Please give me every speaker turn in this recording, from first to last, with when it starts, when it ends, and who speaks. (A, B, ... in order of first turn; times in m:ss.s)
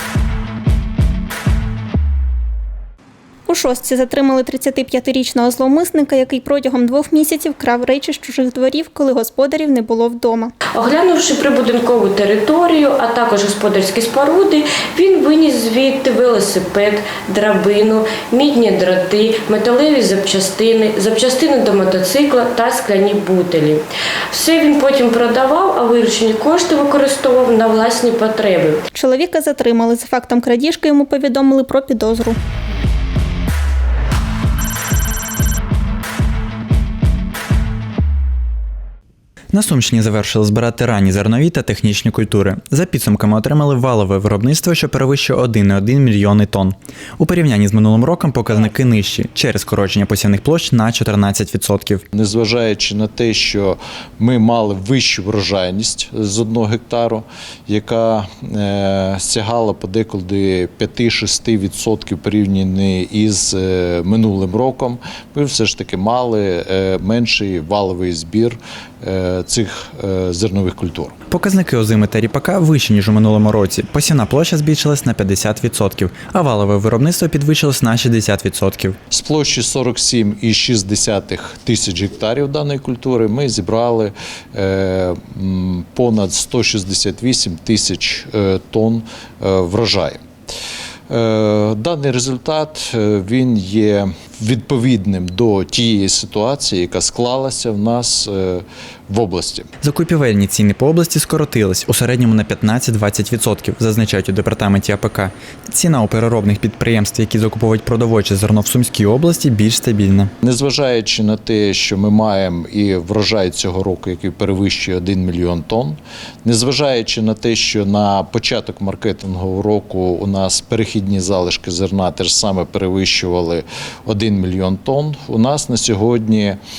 0:03.5-0:10.5 A
0:10.7-0:28.8 B
0:29.0-0:32.4 A
0:39.5-0:52.0 C
0:52.1-1:11.2 D
1:11.3-1:19.0 C
1:19.1-1:30.2 D
1:31.1-1:39.7 D
1:39.8-1:50.3 C
1:50.4-2:06.6 D